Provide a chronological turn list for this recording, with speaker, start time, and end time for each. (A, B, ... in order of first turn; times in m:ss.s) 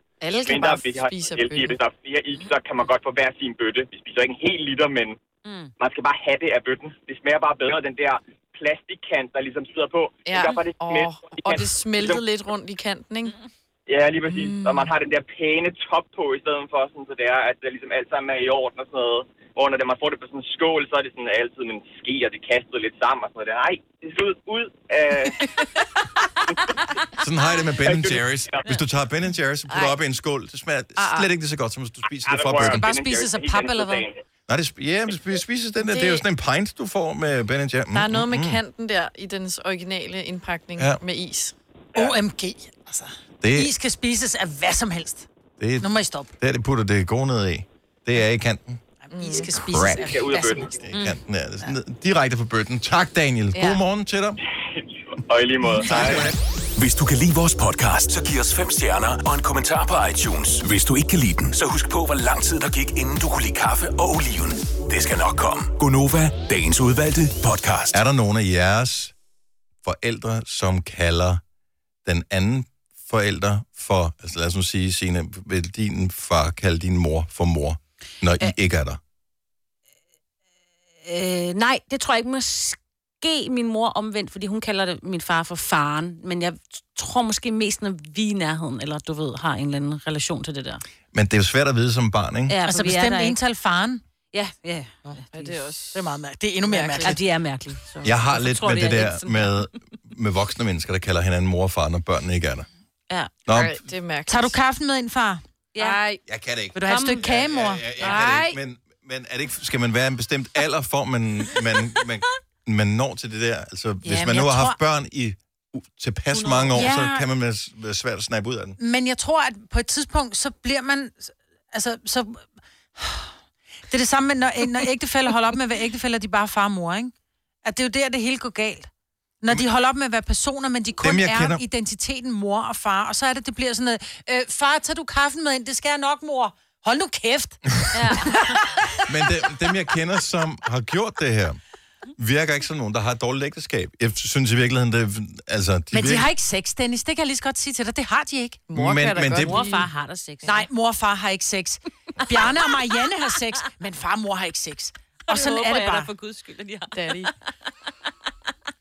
0:00.2-0:01.8 A
0:00.4-0:05.2 B
0:05.4-0:05.7 C
0:05.8-0:12.2 B
0:10.3-0:13.4 A
0:13.9-0:25.4 B
0:14.3-0:15.0 A
0:27.2-0:32.9 D
0:27.8-0:28.6 B
0:29.7-0:30.0 A
0:31.0-0:31.3 A
0:32.2-0:34.1 B
0:32.6-0:34.0 E
0:34.5-0:38.6 D
0:35.8-0:36.2 A
0:37.9-0:41.5 A
0:42.0-0:45.3 E
0:43.4-0:43.7 D
0:45.6-0:45.9 D
0:45.8-0:46.3 E
0:46.4-0:48.8 D
0:49.0-0:50.7 E
0:49.1-0:49.5 A
0:49.7-0:50.1 D
0:49.8-0:50.7 B
0:50.8-0:54.4 D
0:50.9-0:51.2 C
0:53.6-0:53.8 A
0:55.3-0:56.3 B
0:55.8-0:56.3 D
0:56.8-1:08.0 F
1:07.9-1:09.1 D
1:09.8-1:11.4 D
1:12.0-1:19.0 D
1:21.0-1:30.8 C
1:31.1-1:32.6 D
1:32.5-1:33.4 C
1:32.6-1:34.0 E
1:34.3-1:35.6 C
1:35.3-1:36.0 A
1:35.9-1:37.2 E
1:36.7-1:37.2 A
1:37.0-1:39.6 C
1:38.0-1:42.7 D
1:43.4-1:43.9 D
1:43.5-1:44.6 A
1:44.3-1:45.4 E
1:45.7-1:46.0 C
1:45.8-1:46.2 A
1:46.3-1:58.8 D
1:46.7-1:48.2 E
1:46.8-1:47.2 C
1:48.0-1:48.5 A
1:48.0-1:48.4 C
1:54.0-1:54.8 E
1:56.4-1:56.7 A
1:56.7-1:57.3 E
1:58.8-2:03.3 E
2:03.9-2:07.1 E
2:07.6-2:08.9 E
2:09.4-2:17.6 E
2:11.0-2:11.6 D
2:17.9-2:18.6 C
2:19.1-2:21.6 D
2:22.2-2:26.3 D
2:25.9-2:28.6 E
2:28.7-2:29.9 A
2:28.7-2:29.6 D
2:29.3-2:30.6 C
2:30.4-2:36.1 E
2:35.3-2:37.0 C
2:36.9-2:37.3 A